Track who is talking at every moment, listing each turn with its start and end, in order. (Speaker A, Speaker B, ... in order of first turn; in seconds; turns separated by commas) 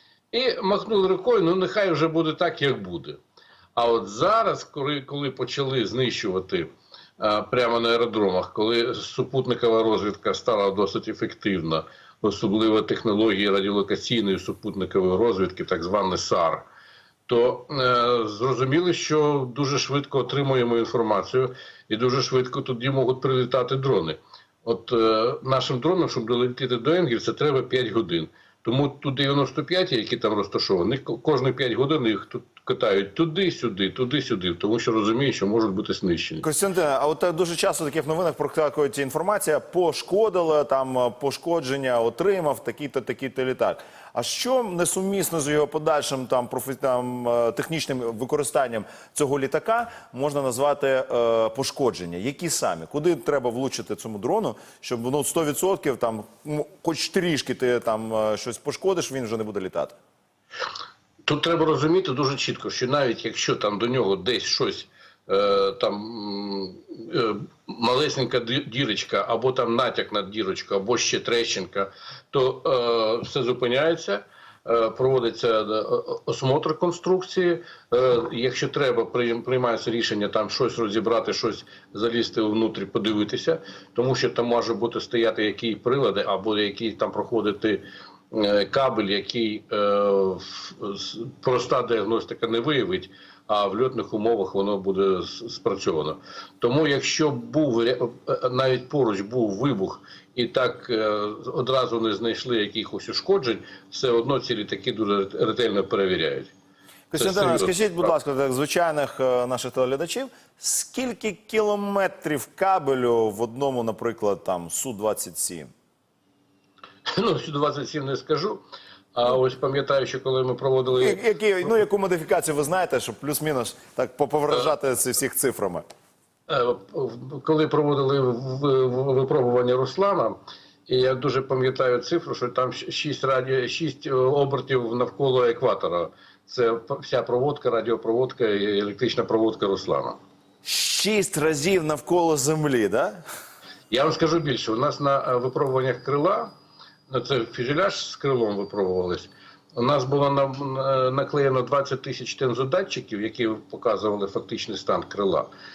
Speaker A: 0.3-3.2, Speaker A: 3.7-16.7, Speaker A: 17.3-36.4, Speaker B: 36.4-59.9, Speaker A: 61.2-106.5, Speaker B: 107.1-115.7, Speaker A: 107.1-108.1, Speaker A: 117.1-121.2, Speaker B: 120.9-125.8, Speaker A: 126.5-140.2, Speaker B: 140.6-143.2, Speaker A: 143.9-146.5, Speaker A: 147.1-155.5